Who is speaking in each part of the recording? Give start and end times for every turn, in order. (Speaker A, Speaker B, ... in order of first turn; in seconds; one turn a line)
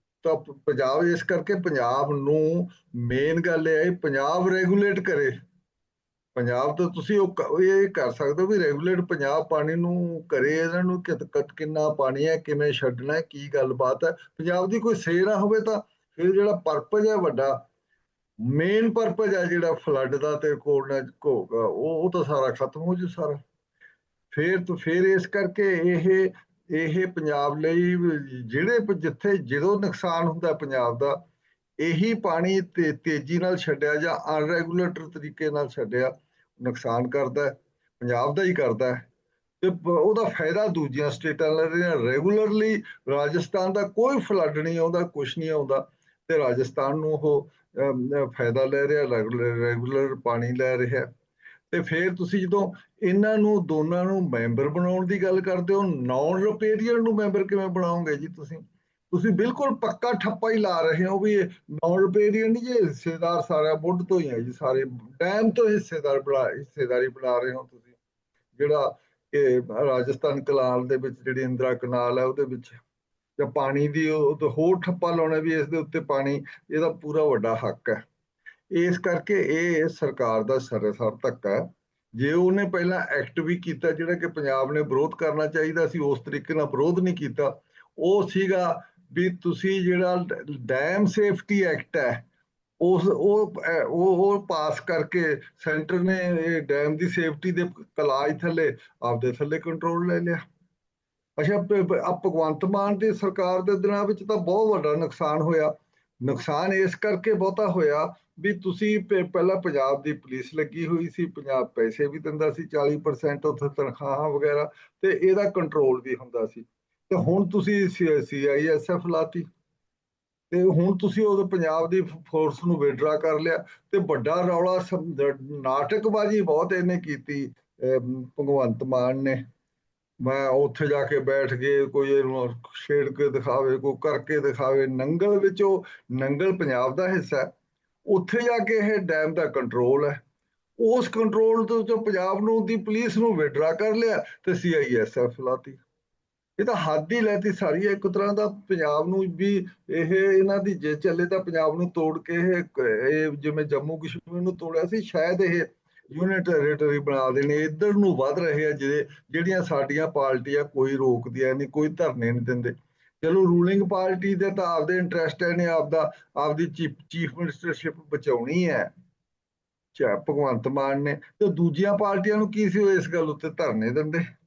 Speaker A: 0.2-5.3
Speaker A: 6.4-17.6
Speaker A: 18.5-23.4
Speaker A: 24.3-31.2
Speaker A: 31.8-39.0
Speaker A: 39.6-51.1
Speaker A: 51.7-67.9
Speaker A: 68.6-72.8
Speaker A: 73.4-78.0
Speaker A: 78.7-81.7
Speaker A: 82.2-92.2
Speaker A: 92.8-100.4
Speaker A: 101.4-119.5
Speaker A: 120.5-129.4
Speaker A: 130.2-137.5
Speaker A: 138.1-140.2
Speaker A: 140.8-145.8
Speaker A: 146.6-168.9
Speaker A: 169.9-174.2